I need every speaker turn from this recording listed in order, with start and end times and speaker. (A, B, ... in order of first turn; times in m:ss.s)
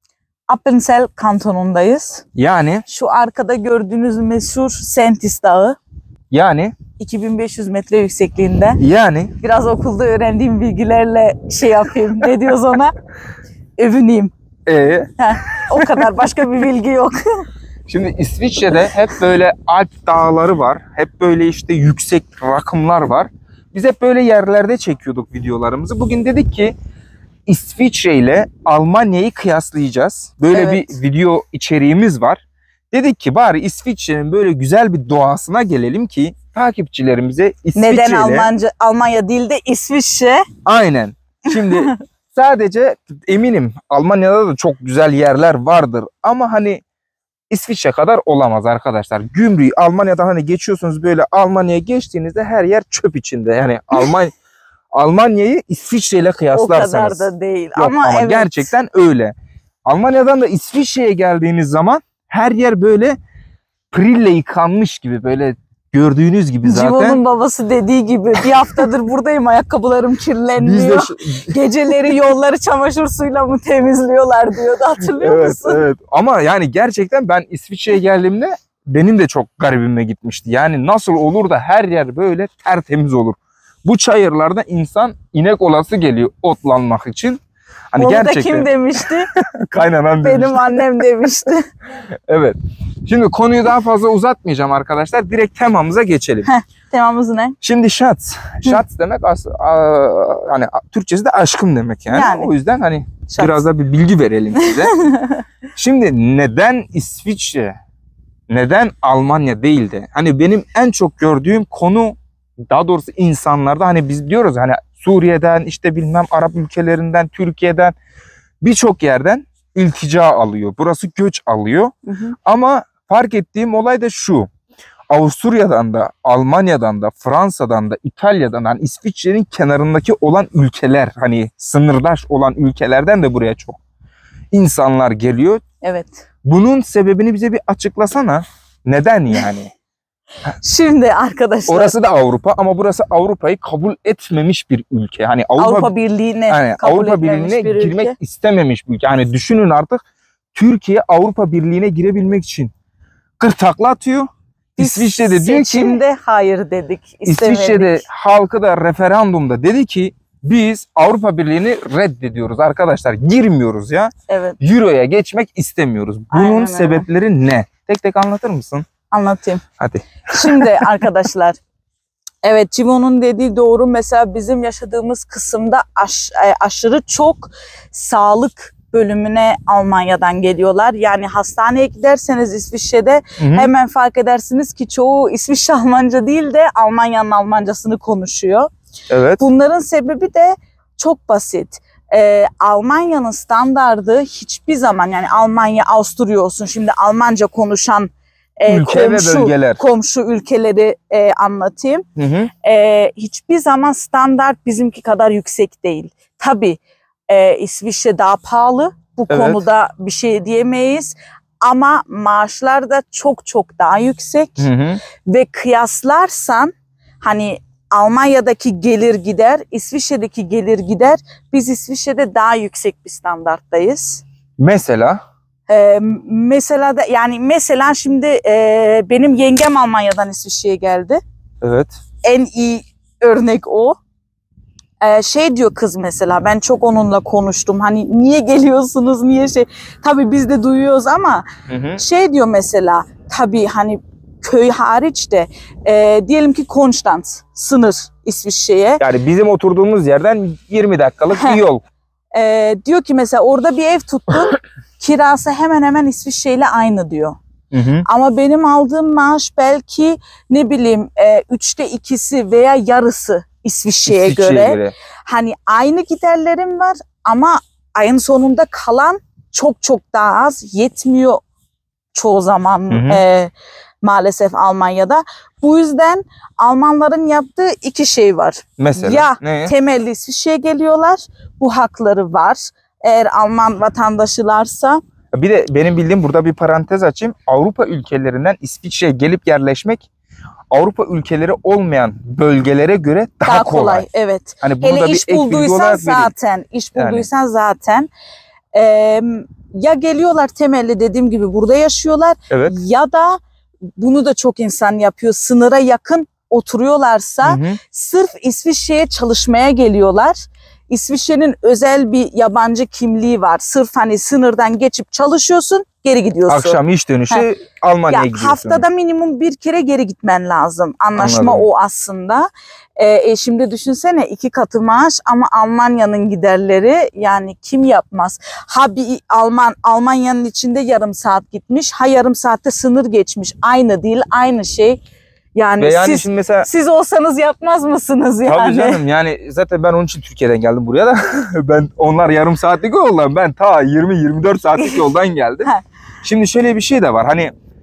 0:00.5-0:02.2 A
0:02.4-0:02.8 B
0:02.9-0:05.8 A
0:06.3-0:06.8 B
0:07.0-0:08.8 A
0:08.8-0:09.3 B
0:09.4-0:13.0 A
0:13.8-0:14.3 A
0:14.7-0:15.1 B
0:15.2-0:17.2 A
0:15.7-0:16.0 B
0:17.9-0:26.8 B
0:27.5-0:38.5 B
0:30.5-0:31.0 A
0:37.8-0:40.4 A
0:40.6-0:46.8 B
0:47.5-0:54.3 B
0:55.0-0:59.3 B
0:56.5-0:58.7 A
0:59.9-1:03.2 B
1:03.9-1:07.2 B
1:06.6-1:15.8 A
1:10.6-1:12.0 B
1:15.2-1:27.4 B
1:27.9-1:30.8 B
1:28.0-1:29.3 A
1:30.2-1:31.7 A
1:32.3-1:36.5 B
1:36.5-1:37.5 A
1:37.6-1:44.9 B
1:42.1-1:42.5 A
1:43.3-1:43.6 A
1:44.5-1:45.4 A
1:45.8-1:47.8 B
1:48.5-1:52.2 B
1:52.7-1:58.0 B
1:58.6-2:01.9 B
2:02.1-2:02.3 A
2:02.5-2:04.5 B
2:05.1-2:13.8 B
2:14.5-2:15.6 B
2:15.8-2:16.2 A
2:16.4-2:19.7 B
2:20.6-2:22.0 A
2:21.7-2:25.9 B
2:25.6-2:28.2 A
2:26.5-2:30.0 B
2:30.5-2:32.7 B
2:33.4-2:36.0 B
2:34.8-2:38.0 A
2:37.2-2:48.8 B
2:44.3-2:44.6 A
2:46.3-2:47.1 A
2:49.1-2:49.6 A
2:49.8-2:50.9 B
2:50.3-2:51.6 A
2:52.4-3:08.7 A
3:03.4-3:03.7 B
3:09.1-3:09.4 B
3:09.4-3:22.0 A
3:18.7-3:19.8 B
3:22.2-3:22.5 B
3:22.6-3:34.7 A
3:29.3-3:29.6 B
3:34.6-3:35.0 B
3:35.2-3:44.2 A
3:44.6-3:45.2 B
3:45.7-3:51.2 A
3:51.6-3:51.9 B
3:52.2-3:54.0 A
3:55.0-4:09.0 A
4:01.7-4:02.0 B
4:09.0-4:11.8 B
4:11.3-4:11.6 A
4:12.3-4:17.4 A
4:17.7-4:18.0 B
4:18.1-4:31.4 A
4:24.1-4:24.9 B
4:32.1-4:45.0 A
4:32.9-4:33.2 B
4:38.8-4:39.7 B
4:45.3-4:50.1 B
4:50.7-4:54.1 B
4:53.4-4:58.1 A
4:54.6-4:56.3 B
4:57.0-4:57.2 B
4:58.7-5:03.4 A
5:02.5-5:02.8 B
5:04.0-5:16.8 A
5:07.4-5:07.8 B
5:16.5-5:18.8 B
5:18.1-5:35.0 A
5:21.1-5:21.6 B
5:35.5-5:39.0 A
5:35.8-5:36.7 B
5:38.5-5:45.7 B
5:44.8-5:45.0 A
5:46.2-5:47.5 B